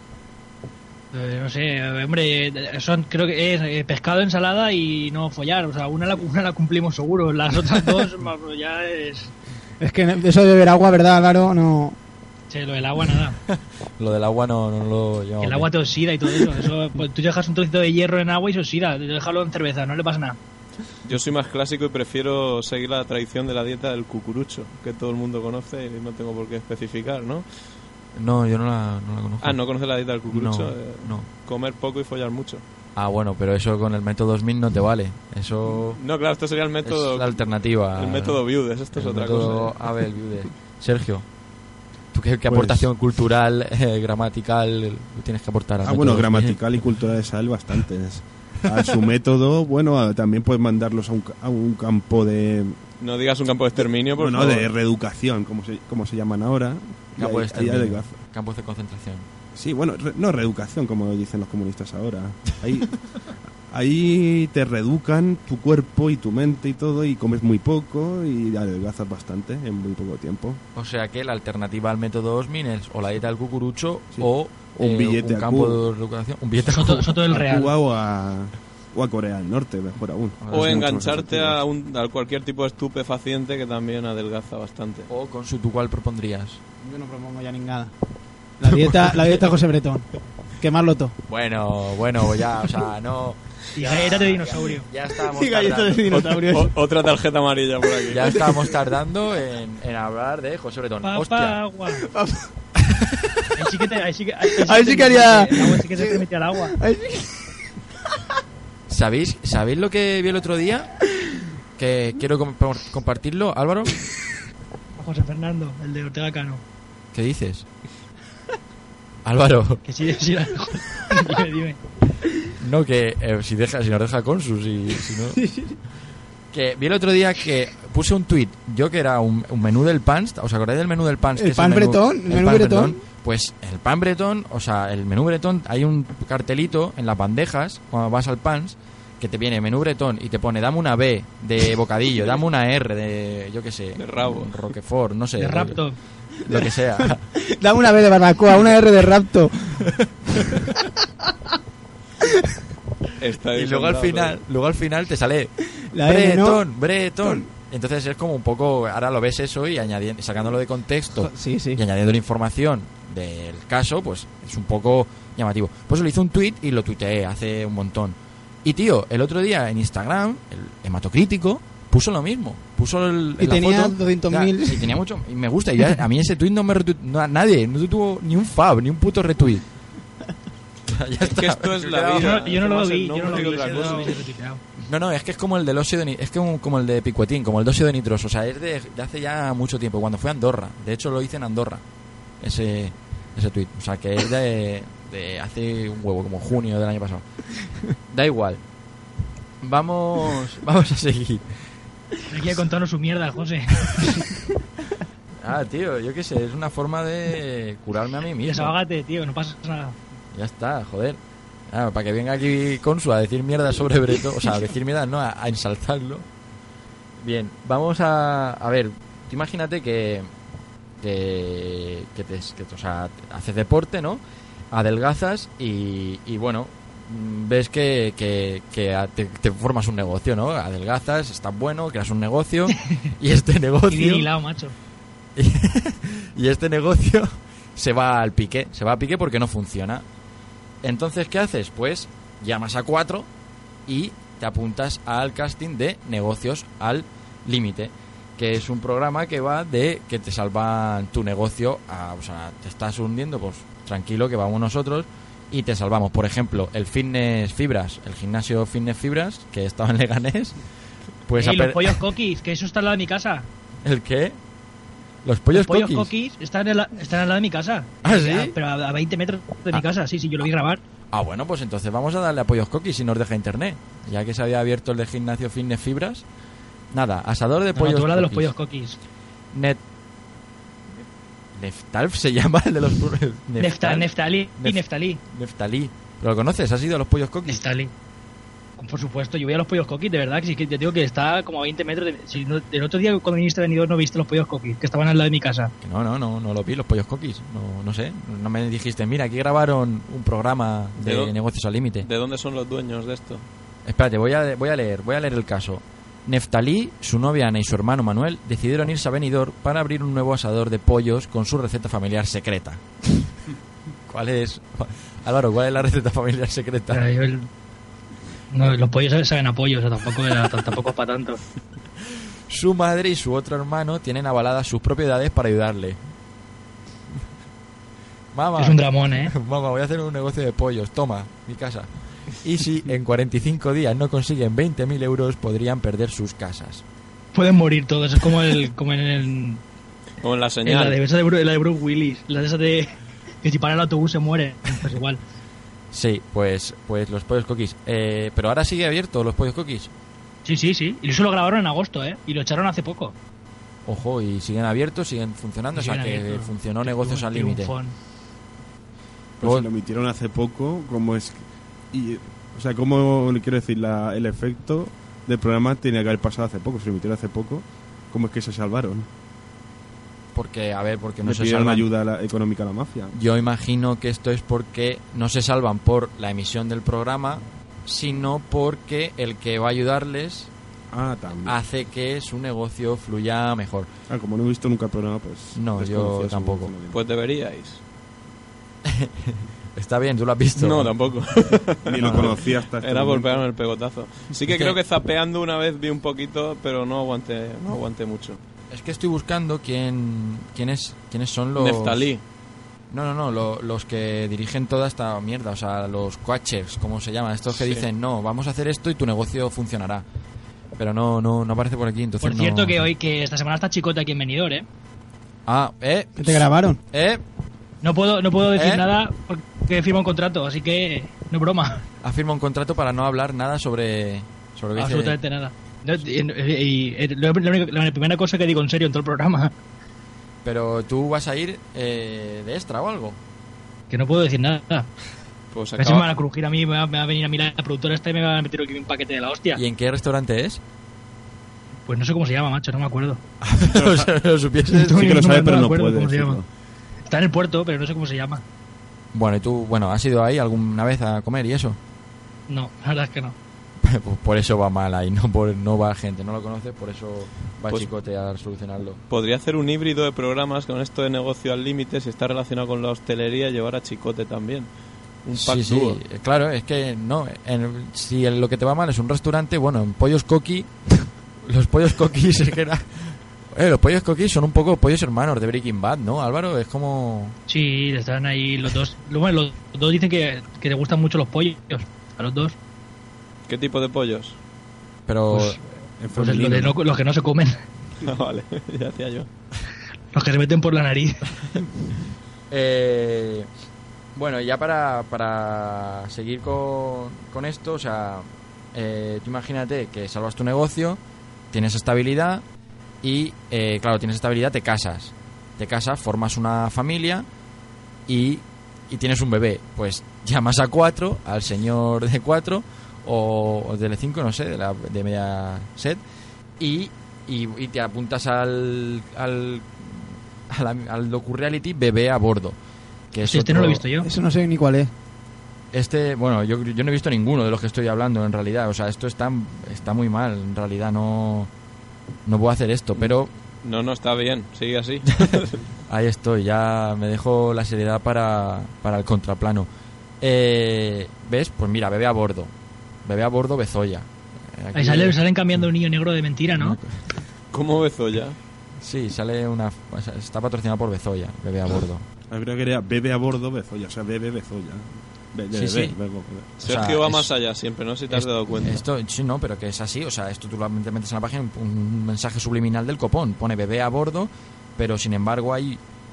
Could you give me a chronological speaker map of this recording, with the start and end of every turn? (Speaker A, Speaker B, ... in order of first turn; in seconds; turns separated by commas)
Speaker A: 1.1-9.3, Speaker B: 9.8-12.0, Speaker A: 12.5-13.4, Speaker C: 13.5-15.7, Speaker A: 15.4-20.4, Speaker D: 21.0-27.4, Speaker C: 28.1-31.3, Speaker D: 29.4-32.6, Speaker C: 33.0-36.0, Speaker D: 36.0-39.8, Speaker C: 36.8-41.2, Speaker C: 42.1-46.6, Speaker E: 42.5-42.9, Speaker E: 45.8-52.8, Speaker D: 53.0-54.7, Speaker E: 54.1-58.1, Speaker C: 57.2-59.3, Speaker E: 59.5-62.9, Speaker E: 63.7-70.6, Speaker C: 70.7-77.1, Speaker E: 74.1-75.8, Speaker A: 76.7-77.7, Speaker E: 77.3-81.6, Speaker C: 80.4-80.8, Speaker D: 80.5-85.1, Speaker C: 85.1-86.6, Speaker B: 86.8-87.9, Speaker B: 88.6-90.1, Speaker C: 88.7-89.5, Speaker B: 90.6-91.1, Speaker C: 91.3-96.1, Speaker A: 93.7-94.8, Speaker B: 95.3-96.7, Speaker D: 96.1-98.4, Speaker C: 98.1-101.6, Speaker A: 101.0-102.0, Speaker B: 102.1-102.5, Speaker A: 103.5-106.8, Speaker B: 104.5-107.5, Speaker C: 108.9-111.0, Speaker C: 111.8-114.0, Speaker A: 115.0-116.6, Speaker C: 117.1-117.7, Speaker C: 119.2-119.8, Speaker A: 119.8-121.8, Speaker C: 122.6-125.4, Speaker B: 125.3-125.8, Speaker C: 126.5-145.8, Speaker B: 131.3-133.0, Speaker D: 144.0-144.5, Speaker A: 145.4-145.9, Speaker C: 146.4-147.2, Speaker B: 146.5-149.9, Speaker D: 153.2-154.4, Speaker C: 153.5-179.6, Speaker B: 155.9-156.6, Speaker B: 161.2-161.8, Speaker B: 173.4-174.9, Speaker C: 180.9-182.5, Speaker D: 181.2-184.2, Speaker A: 182.1-184.6, Speaker C: 183.3-184.0, Speaker C: 184.8-191.8, Speaker C: 192.4-197.2, Speaker C: 198.1-198.6, Speaker C: 199.6-201.5, Speaker A: 202.3-204.2, Speaker C: 205.4-208.7, Speaker A: 208.4-209.9, Speaker C: 210.3-211.2, Speaker C: 211.7-216.2, Speaker C: 217.2-220.3, Speaker C: 221.0-234.3, Speaker A: 233.9-234.7, Speaker C: 235.3-240.0, Speaker C: 240.8-243.3, Speaker C: 243.9-260.6, Speaker C: 261.3-262.0, Speaker A: 261.4-263.5, Speaker C: 263.8-264.4, Speaker C: 265.2-266.1, Speaker A: 265.5-270.8, Speaker C: 268.0-268.5, Speaker C: 271.1-276.2, Speaker C: 276.9-278.5, Speaker A: 277.8-279.0, Speaker C: 279.5-279.8, Speaker C: 281.6-287.6, Speaker A: 283.6-285.2, Speaker A: 287.5-287.9, Speaker A: 288.8-295.7, Speaker C: 295.8-302.1, Speaker D: 301.0-301.3, Speaker D: 302.0-303.4, Speaker C: 303.8-312.8, Speaker C: 314.1-317.1, Speaker A: 316.9-317.5, Speaker A: 318.5-321.4, Speaker C: 322.5-326.0, Speaker C: 328.3-336.8, Speaker A: 328.6-329.3, Speaker A: 337.3-339.6, Speaker D: 340.2-341.0, Speaker A: 340.6-345.2, Speaker C: 345.9-349.9, Speaker A: 350.4-353.1, Speaker C: 353.9-357.7, Speaker A: 355.7-357.9, Speaker E: 359.4-369.1, Speaker C: 359.4-359.7, Speaker C: 370.3-371.9, Speaker E: 371.2-373.1, Speaker C: 373.1-380.5, Speaker E: 380.9-381.6, Speaker C: 381.4-383.9, Speaker E: 384.1-387.0, Speaker C: 385.5-386.7, Speaker D: 386.9-387.8, Speaker C: 388.8-390.9, Speaker D: 390.6-398.4, Speaker C: 391.5-392.4, Speaker E: 391.9-393.4, Speaker C: 394.5-394.8, Speaker C: 398.7-402.1, Speaker D: 401.5-402.2, Speaker C: 402.9-410.0, Speaker D: 407.5-407.9, Speaker C: 410.8-412.9, Speaker A: 412.2-414.6, Speaker C: 415.5-417.2, Speaker B: 416.2-416.8, Speaker A: 417.8-421.8, Speaker C: 418.5-418.9, Speaker C: 422.0-425.2, Speaker A: 424.8-429.5, Speaker C: 430.4-433.2, Speaker A: 433.9-434.9, Speaker D: 435.5-436.1, Speaker A: 435.8-439.6, Speaker C: 439.5-440.6, Speaker A: 441.9-443.2, Speaker C: 443.4-445.1, Speaker E: 443.7-444.1, Speaker A: 444.7-446.4, Speaker E: 444.9-446.4, Speaker A: 447.1-448.4, Speaker C: 449.1-451.8, Speaker A: 452.5-453.4, Speaker C: 453.8-459.0, Speaker D: 459.1-464.7, Speaker D: 465.2-466.0, Speaker C: 465.3-477.4, Speaker A: 477.5-482.5, Speaker D: 483.5-484.4, Speaker C: 485.1-485.6, Speaker A: 485.3-485.6, Speaker E: 486.0-486.8, Speaker A: 486.1-487.6, Speaker D: 488.0-489.3, Speaker A: 490.1-491.2, Speaker C: 492.5-493.5, Speaker C: 494.1-501.0, Speaker C: 501.5-502.4, Speaker C: 503.0-507.2, Speaker C: 508.1-516.0, Speaker C: 516.6-522.5, Speaker C: 523.1-523.8, Speaker A: 523.2-524.1, Speaker B: 524.0-524.9, Speaker C: 525.7-531.5, Speaker C: 532.2-533.3, Speaker D: 533.6-535.6, Speaker C: 535.9-539.7, Speaker C: 540.2-542.5, Speaker C: 543.0-545.6, Speaker A: 544.7-546.8, Speaker C: 546.5-547.0, Speaker D: 547.5-548.4, Speaker C: 548.8-552.0, Speaker E: 552.3-556.5, Speaker C: 555.5-555.9, Speaker C: 556.6-557.3, Speaker D: 556.6-558.8, Speaker C: 558.1-565.8